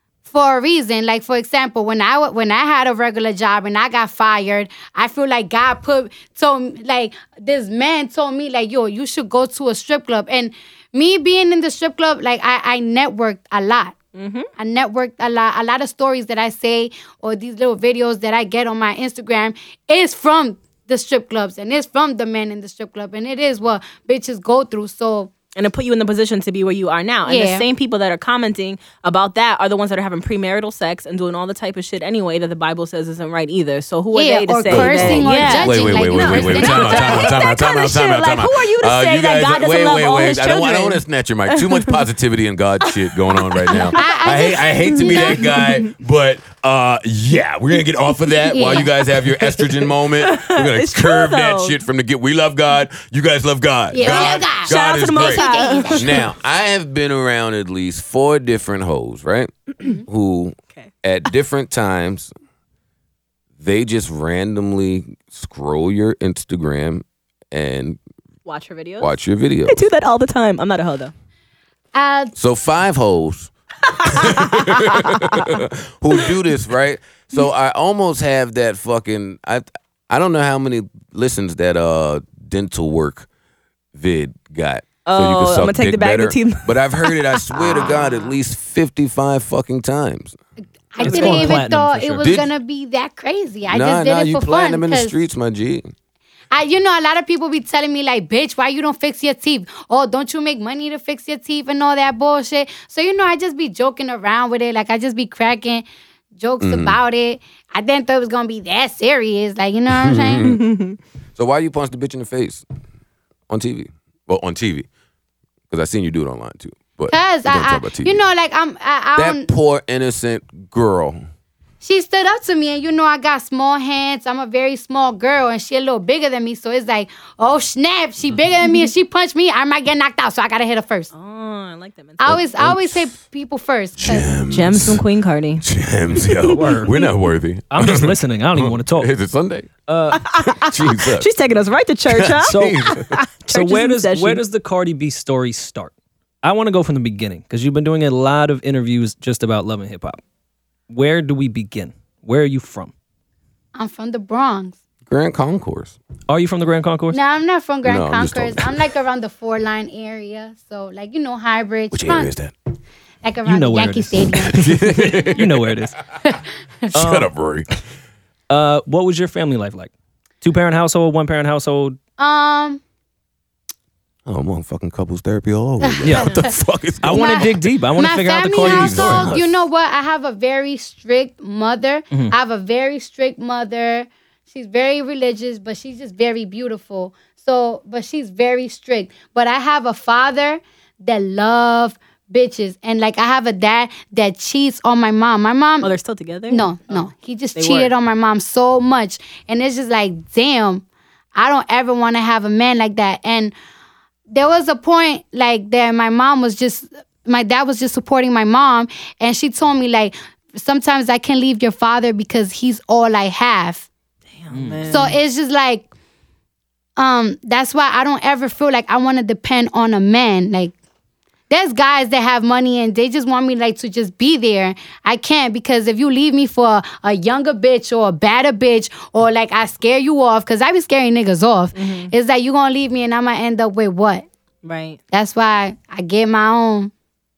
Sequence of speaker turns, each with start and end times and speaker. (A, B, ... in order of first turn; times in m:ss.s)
0:00.3-0:14.0 A
0:14.2-0:14.5 B
0:14.6-0:25.3 A
0:25.6-0:42.0 B
0:27.3-0:27.7 A
0:34.1-0:37.4 A
0:34.7-1:02.3 C
0:43.3-0:44.3 B
0:43.9-0:45.6 A
0:45.0-0:45.7 B
0:48.5-0:48.9 A
0:49.6-0:51.8 B
0:53.9-0:56.2 A
0:54.0-0:56.2 B
1:03.6-1:08.0 C
1:08.5-1:09.1 B
1:09.0-1:09.8 C
1:09.7-1:11.1 B
1:11.9-1:12.3 A
1:12.4-1:23.3 C
1:14.1-1:15.0 B
1:23.9-1:30.4 C
1:25.1-1:28.1 B
1:30.9-1:35.1 A
1:31.0-1:32.3 D
1:31.0-1:31.5 B
1:32.2-1:32.5 C
1:33.7-1:35.9 C
1:36.5-1:45.8 A
1:46.4-1:50.4 A
1:46.6-1:47.0 C
1:49.9-1:50.6 C
1:50.5-1:51.0 B
1:51.4-1:52.6 C
1:53.5-1:54.9 C
1:55.7-1:58.2 C
1:57.1-1:59.5 A
1:59.2-2:01.2 C
2:01.8-2:11.1 A
2:11.1-2:12.4 B
2:12.2-2:14.3 A
2:12.2-2:13.1 C
2:14.0-2:15.0 C
2:14.5-2:15.6 B
2:15.6-2:19.7 C
2:16.3-2:16.6 B
2:16.5-2:17.0 D
2:17.7-2:19.1 D
2:19.9-2:20.2 D
2:20.1-2:24.4 B
2:20.5-2:21.3 C
2:22.1-2:23.2 C
2:22.4-2:22.9 D
2:23.5-2:30.2 D
2:30.9-2:32.9 D
2:33.8-2:34.8 A
2:35.1-2:36.0 C
2:36.3-2:37.2 D
2:37.1-2:42.3 A
2:37.8-2:38.8 C
2:41.9-2:42.5 C
2:43.2-2:44.7 A
2:43.4-2:46.0 D
2:44.4-2:45.7 C
2:46.2-2:46.9 A
2:46.9-2:47.7 C
2:46.9-2:47.3 D
2:48.5-2:52.0 D
2:52.2-2:52.8 A
2:54.3-2:57.5 C
2:55.8-2:56.5 A
2:56.0-2:56.3 D
2:57.0-2:59.4 D
2:57.1-3:15.9 A
2:58.5-2:59.5 C
3:15.8-3:17.0 B
3:16.5-3:20.8 A
3:17.6-3:17.9 B
3:21.4-3:23.5 A
3:24.3-3:33.9 A
3:34.4-3:35.2 B
3:34.5-3:35.2 D
3:34.9-3:35.9 A
3:37.0-3:40.7 A
3:41.5-3:54.3 A
3:51.8-3:52.1 B
3:54.6-3:55.0 B
3:55.1-3:56.9 A